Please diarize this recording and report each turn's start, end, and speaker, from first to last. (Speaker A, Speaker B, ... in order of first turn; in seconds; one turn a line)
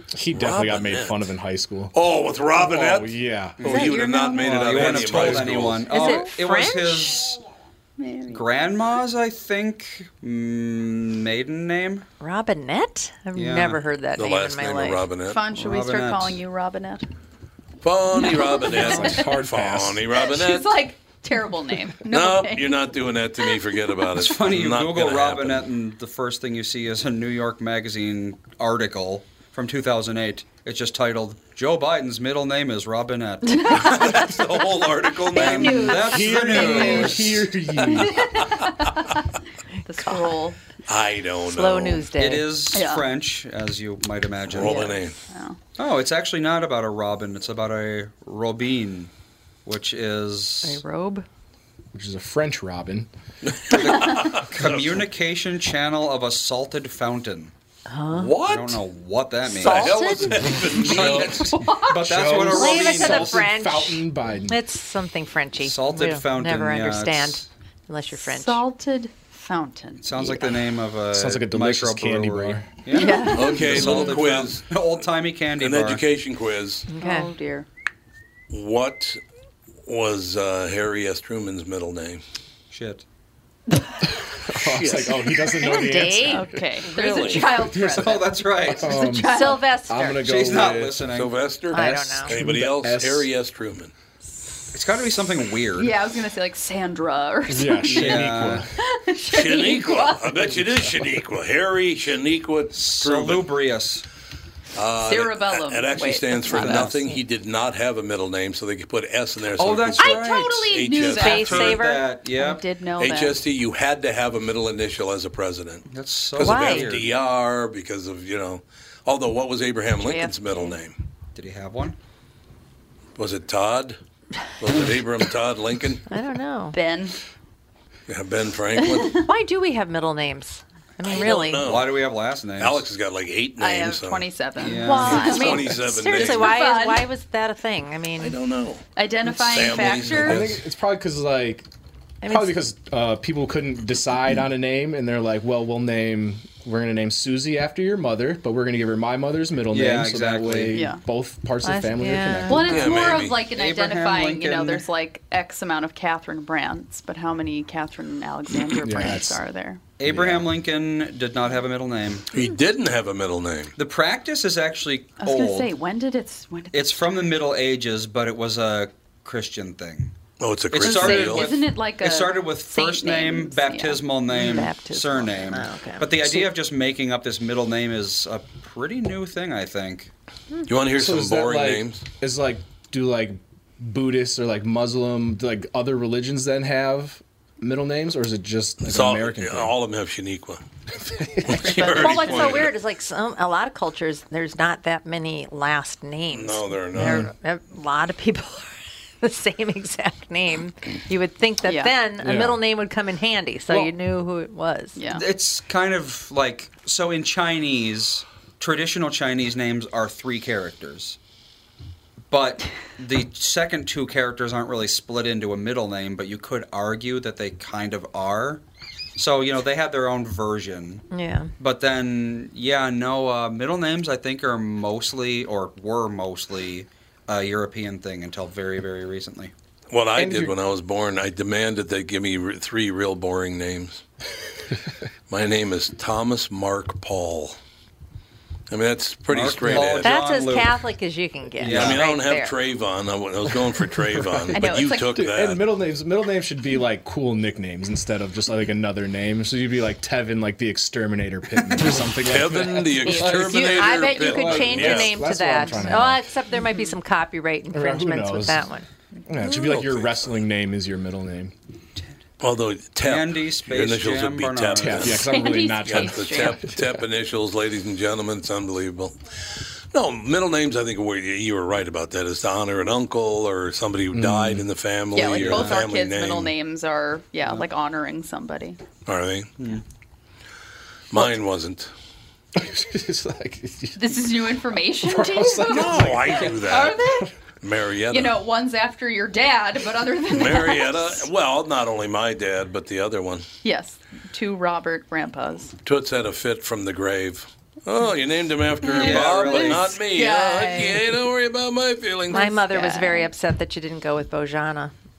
Speaker A: 0.1-1.9
Speaker B: 0.3-1.3
Speaker B: 1.9-5.9
Speaker A: 2.5-3.6
Speaker C: 3.6-7.4
Speaker D: 3.6-5.3
Speaker E: 5.9-7.3
Speaker D: 5.9-6.3
Speaker D: 8.0-8.5
Speaker C: 8.3-12.1
Speaker E: 12.2-15.1
Speaker C: 13.3-13.8
Speaker B: 14.2-15.4
Speaker D: 15.2-17.1
Speaker C: 15.6-16.4
Speaker B: 17.8-20.8
Speaker D: 18.2-19.1
Speaker A: 18.8-20.0
Speaker D: 20.1-22.9
Speaker B: 22.0-25.6
Speaker C: 24.1-34.0
Speaker D: 33.6-33.9
Speaker B: 33.7-35.9
Speaker C: 35.3-37.5
Speaker D: 35.4-36.0
Speaker E: 35.4-37.1
Speaker A: 36.1-38.1
Speaker D: 38.0-38.9
Speaker D: 39.9-40.6
Speaker E: 40.0-40.3
Speaker B: 40.9-42.0
Speaker E: 41.5-42.5
Speaker C: 42.2-44.9
Speaker D: 42.7-43.1
Speaker B: 44.5-45.1
Speaker E: 44.6-45.0
Speaker D: 45.3-45.6
Speaker C: 45.8-49.1
Speaker C: 49.6-50.8
Speaker D: 50.6-51.2
Speaker A: 51.9-53.1
Speaker B: 53.5-55.1
Speaker C: 53.7-57.5
Speaker E: 57.9-58.4
Speaker B: 58.1-58.8
Speaker C: 58.3-60.0
Speaker E: 59.6-60.3
Speaker B: 59.6-63.2
Speaker C: 60.6-63.4
Speaker D: 60.8-62.1
Speaker E: 62.5-68.6
Speaker A: 63.0-64.6
Speaker C: 65.6-67.5
Speaker D: 68.1-70.5
Speaker C: 70.0-76.0
Speaker A: 71.1-72.8
Speaker D: 72.9-73.6
Speaker E: 73.0-73.5
Speaker B: 73.3-74.6
Speaker A: 73.7-73.9
Speaker B: 75.6-76.8
Speaker E: 76.9-77.3
Speaker D: 77.0-77.7
Speaker B: 78.5-79.2
Speaker B: 79.9-82.2
Speaker C: 82.7-83.0
Speaker A: 84.3-86.5
Speaker B: 84.6-85.7
Speaker E: 85.7-86.5
Speaker D: 86.2-89.7
Speaker B: 86.8-87.5
Speaker A: 87.7-88.2
Speaker C: 87.9-89.1
Speaker A: 88.8-91.0
Speaker E: 89.3-90.3
Speaker C: 90.2-91.3
Speaker B: 91.1-93.9
Speaker E: 91.7-92.3
Speaker A: 91.8-93.3
Speaker C: 94.7-95.9
Speaker D: 95.8-100.5
Speaker A: 97.5-98.7
Speaker C: 97.9-98.7
Speaker B: 99.3-103.5
Speaker C: 102.7-104.0
Speaker B: 104.7-111.8
Speaker D: 105.0-106.9
Speaker C: 106.5-107.0
Speaker C: 109.6-112.6
Speaker D: 110.0-113.4
Speaker E: 111.0-112.0
Speaker B: 113.0-121.0
Speaker C: 115.9-117.1
Speaker E: 116.4-116.9
Speaker D: 120.0-120.7
Speaker C: 121.3-122.0
Speaker B: 123.2-124.0
Speaker B: 124.6-126.0
Speaker E: 126.1-126.8
Speaker D: 126.7-127.2
Speaker B: 128.1-129.2
Speaker D: 128.9-129.2
Speaker E: 129.2-131.7
Speaker B: 131.0-131.9
Speaker C: 131.6-132.8
Speaker B: 132.6-134.2
Speaker D: 133.6-137.1
Speaker C: 134.6-135.7
Speaker E: 134.8-138.4
Speaker B: 135.1-136.5
Speaker B: 138.2-138.8
Speaker D: 138.9-140.4
Speaker B: 139.4-140.6
Speaker A: 140.1-141.7
Speaker E: 142.2-142.5
Speaker A: 142.2-152.7
Speaker C: 149.7-150.8
Speaker D: 150.7-151.0
Speaker E: 151.6-152.8
Speaker D: 152.5-159.8
Speaker B: 152.7-153.4
Speaker C: 153.5-154.9
Speaker A: 158.8-159.4
Speaker C: 160.0-162.3
Speaker A: 160.0-160.5
Speaker B: 162.3-163.7
Speaker C: 163.8-165.7
Speaker D: 165.2-167.3
Speaker C: 166.7-170.1
Speaker B: 170.4-171.5
Speaker C: 170.7-180.1
Speaker D: 170.8-174.7
Speaker E: 174.3-176.5
Speaker B: 180.7-182.0
Speaker A: 180.9-189.7
Speaker B: 188.8-190.6
Speaker A: 191.1-191.9
Speaker B: 191.4-192.7
Speaker D: 191.8-192.4
Speaker E: 191.8-205.0
Speaker B: 196.3-197.3
Speaker A: 196.9-197.3
Speaker D: 201.6-201.9
Speaker A: 202.2-202.6
Speaker D: 204.9-205.2
Speaker C: 205.1-211.2
Speaker C: 212.3-218.6
Speaker C: 219.2-221.1
Speaker E: 221.1-221.5
Speaker C: 221.6-229.5
Speaker B: 229.9-234.0
Speaker A: 230.2-230.5
Speaker B: 235.3-237.6
Speaker B: 238.7-240.1
Speaker C: 239.3-240.8
Speaker A: 239.7-239.9
Speaker E: 240.0-242.6
Speaker C: 241.6-242.0
Speaker B: 241.6-245.6
Speaker A: 244.0-244.5
Speaker D: 244.5-245.2
Speaker A: 245.1-256.3
Speaker B: 252.2-255.2
Speaker E: 253.1-258.9
Speaker D: 256.6-256.9
Speaker A: 257.7-258.7
Speaker A: 259.3-261.5
Speaker B: 259.5-260.3
Speaker B: 262.4-276.5
Speaker C: 263.0-265.2
Speaker A: 264.8-267.0
Speaker D: 265.2-266.6
Speaker A: 274.1-274.7
Speaker D: 275.1-278.8
Speaker C: 275.4-275.8
Speaker B: 279.1-279.5
Speaker B: 281.1-281.9
Speaker A: 282.5-284.0
Speaker D: 284.0-287.3
Speaker A: 285.0-286.4
Speaker B: 285.7-287.0
Speaker B: 287.6-288.3
Speaker D: 288.1-291.3
Speaker B: 290.3-293.5
Speaker D: 293.6-295.7
Speaker B: 295.8-302.5
Speaker C: 298.9-300.0
Speaker D: 298.9-301.1
Speaker E: 302.3-304.9
Speaker D: 302.3-303.3